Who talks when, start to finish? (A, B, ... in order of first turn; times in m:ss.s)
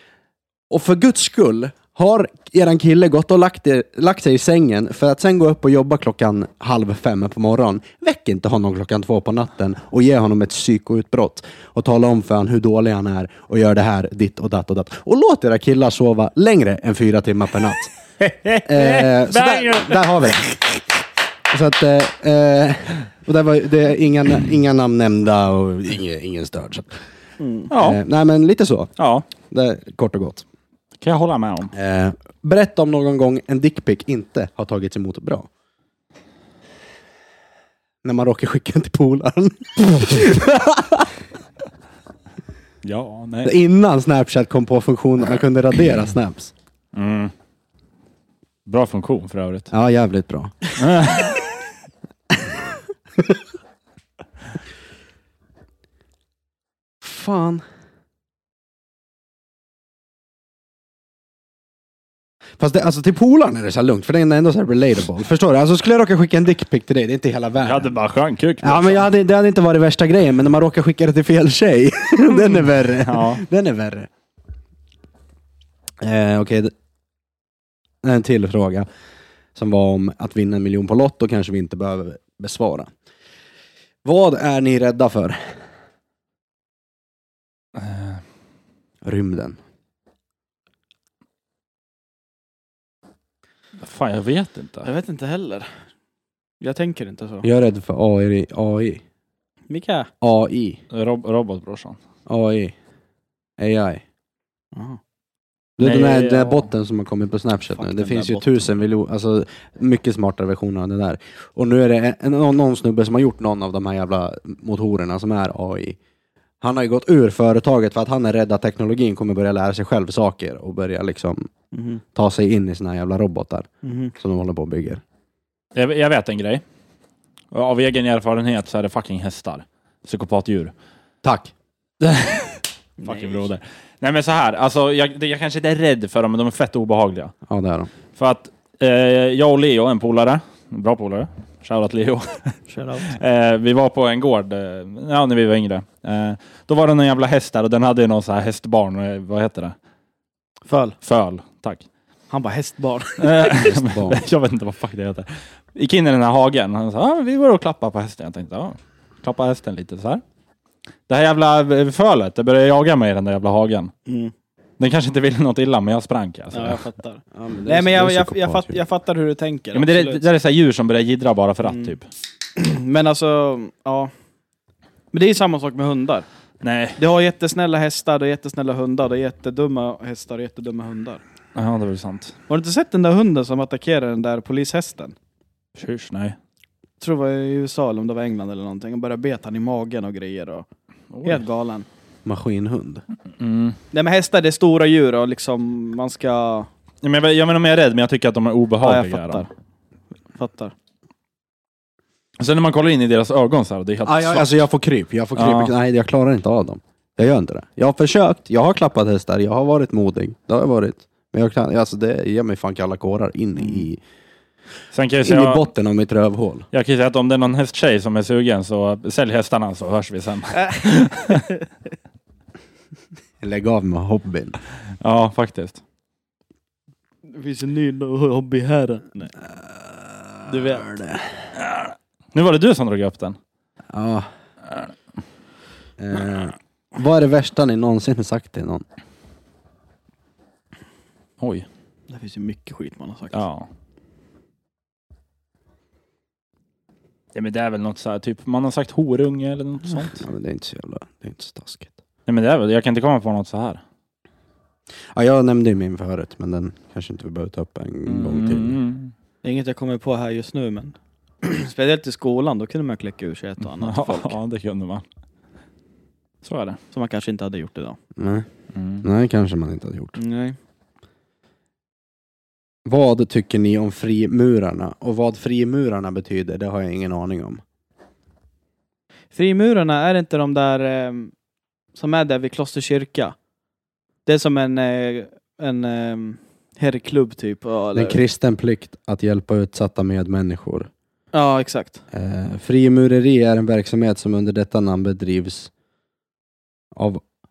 0:00.7-0:17.9 A
0:18.2-0:20.4 B
0:18.6-0:20.8 A
0:21.5-0:27.0 A
0:27.4-0:27.7 C
0:27.7-0:28.0 B
0:27.8-0:30.4 A
0:29.0-0:29.2 B
0:31.0-0:31.7 B
0:31.7-0:35.5 A
0:38.0-0:41.1 A
0:42.8-0:43.5 B
0:43.4-0:46.5 A
0:46.9-0:47.3 B
0:48.6-0:49.7 B
0:49.7-0:50.7 A
0:50.8-0:51.4 B
0:57.0-0:57.6 A
1:02.6-1:07.9 A
1:07.6-1:09.1 B
1:08.6-1:14.1 A
1:13.0-1:13.4 B
1:16.0-1:16.7 A
1:18.0-1:18.9 A
1:19.5-1:22.9 A
1:24.0-1:25.5 A
1:27.8-1:28.2 B
1:29.0-1:29.6 A
1:33.8-1:34.9 B
1:34.8-1:35.7 C
1:36.6-1:37.5 C
1:37.4-1:39.0 A
1:39.7-1:40.1 C
1:40.2-1:40.8 A
1:40.9-1:42.0 B
1:42.3-1:42.7 A
1:43.6-1:44.0 A
1:44.7-1:45.0 C
1:45.8-1:56.0 A
1:45.8-1:46.6 B
1:47.7-1:48.6 C
1:56.6-2:01.5 A
2:01.7-2:02.0 C
2:02.1-2:05.0 A
2:03.8-2:04.1 C
2:05.7-2:06.6 B
2:07.5-2:10.7 B
2:11.2-2:11.5 A
2:12.0-2:17.3 B
2:13.0-2:13.5 C
2:17.5-2:17.9 A
2:18.2-2:29.8 B
2:22.7-2:23.2 C
2:30.7-2:31.0 C
2:31.0-2:31.8 B
2:32.3-2:33.6 C
2:33.2-2:40.2 B
2:33.6-2:34.2 A
2:41.1-2:43.9 B
2:44.0-2:44.3 C
2:44.8-2:46.8 B
2:46.5-2:50.2 C
2:47.3-2:48.8 A
2:49.7-2:52.0 B
2:51.6-2:51.9 C
2:52.6-2:54.1 C
2:55.1-2:56.2 C
2:56.6-2:57.0 B
2:57.0-3:01.2 C
3:01.5-3:02.3 B
3:02.5-3:05.2 C
3:05.8-3:06.4 B
3:07.0-3:10.6 C
3:11.1-3:11.4 B
3:11.2-3:11.9 C
3:12.2-3:13.0 A
3:13.4-3:13.8 B
3:13.9-3:16.7 C
3:17.0-3:19.4 B
3:18.8-3:19.5 C
3:20.3-3:20.7 C
3:22.4-3:24.5 B
3:24.0-3:34.0 A
3:25.3-3:25.7 B
3:34.9-3:35.6 B
3:35.2-3:36.7 A
3:36.7-3:41.4 B
3:40.5-3:41.6 C
3:43.4-3:44.6 A
3:45.0-3:45.8 B
3:47.3-3:49.3 C
3:49.9-3:51.3 A
3:50.5-3:51.0 C
3:51.6-3:53.4 B
3:53.9-3:54.3 A
3:56.0-3:58.8 A
4:01.4-4:01.6 B
4:02.1-4:03.4 C
4:03.3-4:03.7 B
4:07.3-4:10.2 B
4:10.0-4:12.0 A
4:12.3-4:13.8 B
4:15.1-4:18.8 A
4:18.0-4:19.1 B
4:19.4-4:24.3 C
4:23.7-4:25.0 B
4:26.4-4:26.8 B
4:26.9-4:28.0 C
4:28.2-4:28.5 A
4:28.7-4:29.0 B
4:29.0-4:30.2 A
4:30.1-4:30.6 C
4:32.8-4:37.6 A
4:39.3-4:41.3 C
4:41.9-4:43.4 C
4:44.2-4:48.2 C
4:47.9-4:50.9 A
4:51.3-4:52.0 C
4:52.1-4:55.7 A
4:56.9-4:57.2 A